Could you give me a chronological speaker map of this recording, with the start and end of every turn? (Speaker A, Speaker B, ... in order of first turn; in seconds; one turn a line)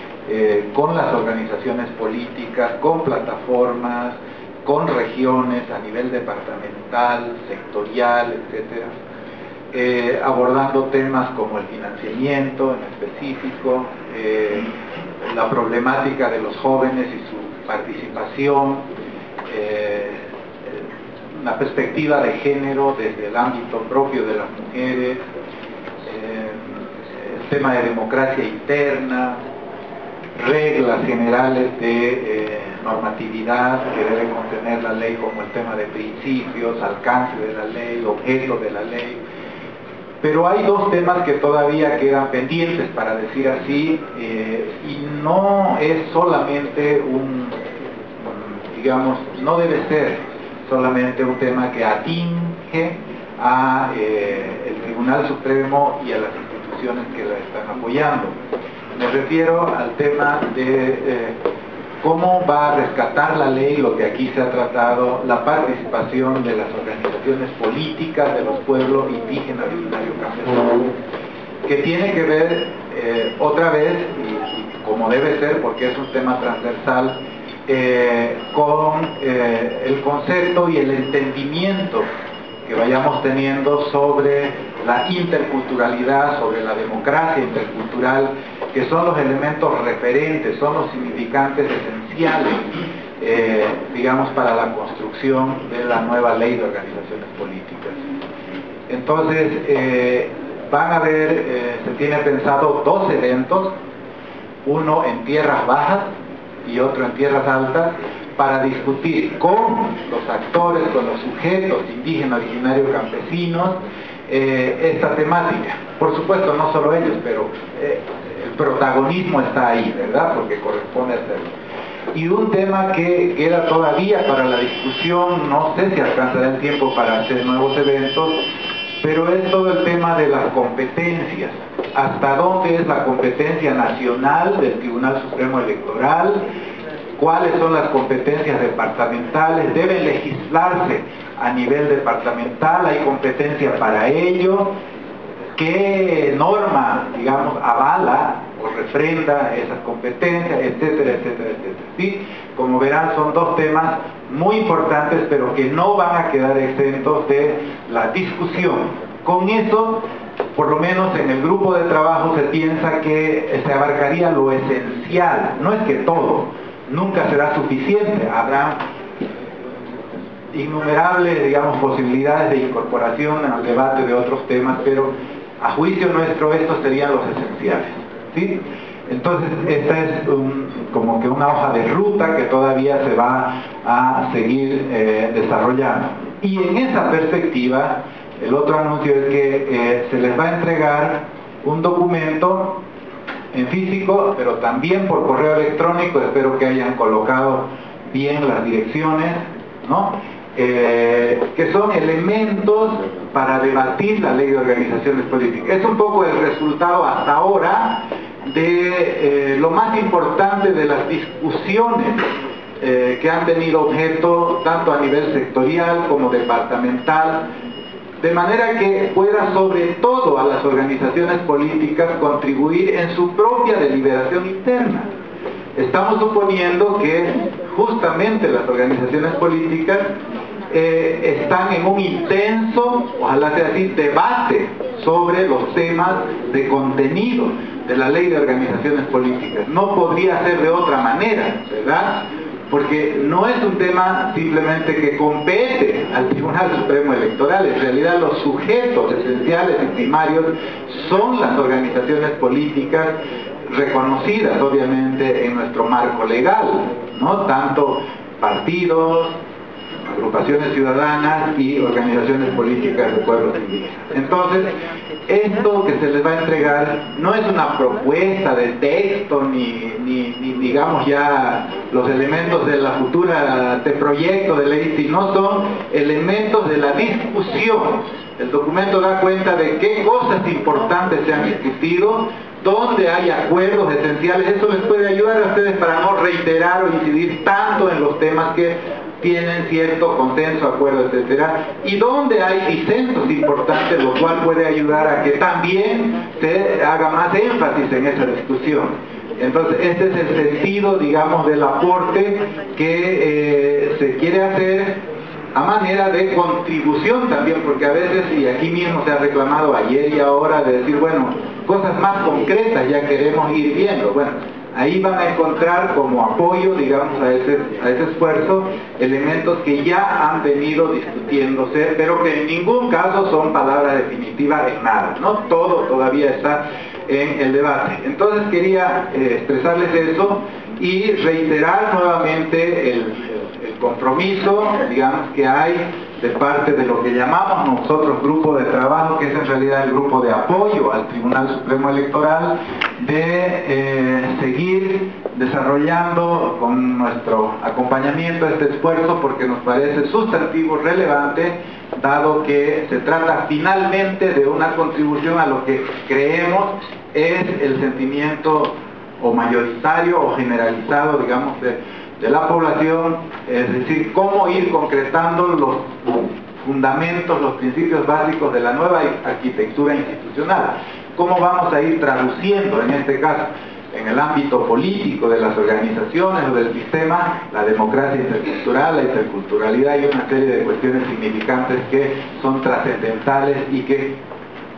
Speaker A: 0.2-9.0
Speaker A: 9.7-14.7
Speaker A: 15.2-18.9
Speaker A: 19.5-25.2
Speaker A: 26.0-29.4
Speaker A: 30.4-39.2
Speaker A: 40.2-47.6
Speaker A: 48.2-58.3
Speaker A: 59.0-61.4
Speaker A: 62.0-70.9
Speaker A: 71.6-82.1
Speaker A: 82.7-98.0
Speaker A: 98.9-103.7
Speaker A: 104.6-106.1
Speaker A: 106.6-121.5
Speaker A: 122.1-128.4
Speaker A: 129.0-136.5
Speaker A: 137.2-144.8
Speaker A: 145.6-168.8
Speaker A: 170.5-192.8
Speaker A: 193.5-212.3
Speaker A: 212.8-217.5
Speaker A: 218.2-225.1
Speaker A: 225.8-230.2
Speaker A: 230.7-259.4
Speaker A: 260.0-264.7
Speaker A: 265.3-305.0
Speaker A: 305.5-384.2